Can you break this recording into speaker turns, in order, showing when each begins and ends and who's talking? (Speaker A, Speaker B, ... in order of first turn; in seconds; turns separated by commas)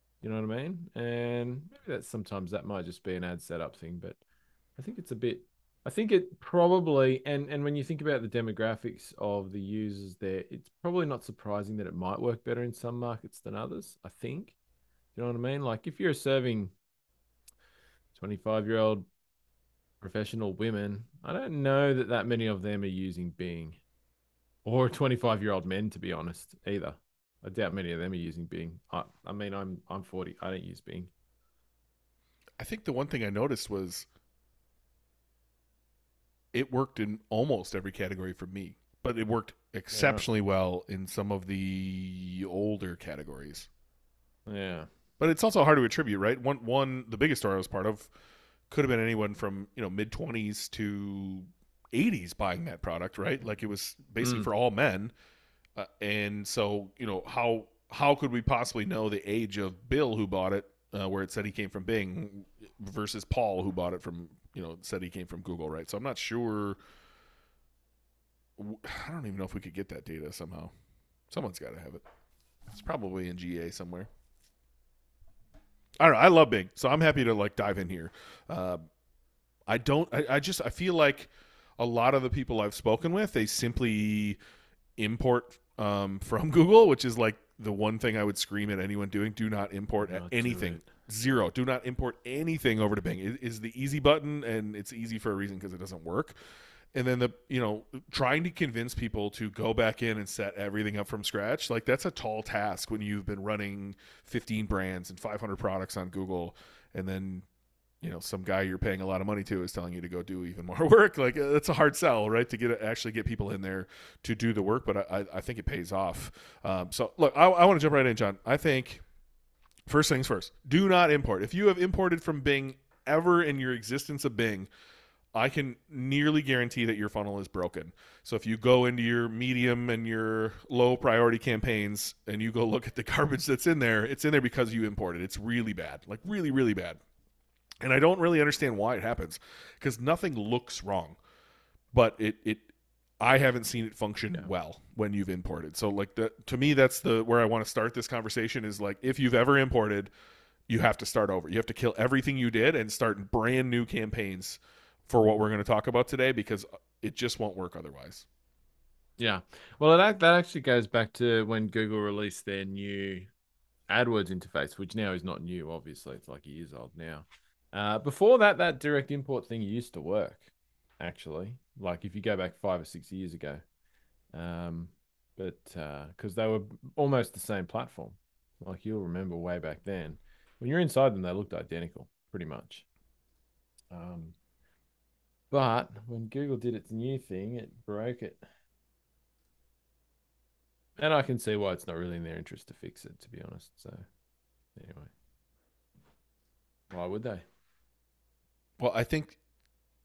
Speaker A: 0.2-4.2, Speaker A: 4.8-14.6, Speaker A: 15.2-16.7, Speaker A: 18.1-19.1, Speaker A: 20.0-23.8, Speaker A: 24.6-31.1, Speaker B: 32.6-34.1, Speaker B: 36.5-43.7, Speaker A: 39.9-40.3, Speaker A: 44.5-44.9, Speaker B: 45.2-48.1, Speaker B: 48.7-55.1, Speaker A: 54.2-54.5, Speaker B: 55.8-66.8, Speaker B: 68.6-70.7, Speaker B: 71.3-72.0, Speaker B: 72.7-74.1, Speaker B: 76.0-78.8, Speaker B: 79.7-84.4, Speaker B: 85.0-96.3, Speaker A: 90.0-90.9, Speaker B: 97.0-107.5, Speaker B: 108.0-119.0, Speaker B: 119.9-124.7, Speaker B: 125.3-137.0, Speaker B: 137.8-141.2, Speaker B: 141.9-142.7, Speaker B: 143.2-150.1, Speaker B: 150.7-158.3, Speaker A: 159.2-163.3, Speaker A: 163.9-170.5, Speaker A: 171.0-173.6, Speaker A: 174.3-182.8, Speaker A: 183.9-184.3, Speaker A: 185.5-188.4, Speaker A: 191.0-194.0, Speaker A: 194.8-195.1, Speaker A: 196.9-197.4, Speaker B: 198.8-199.4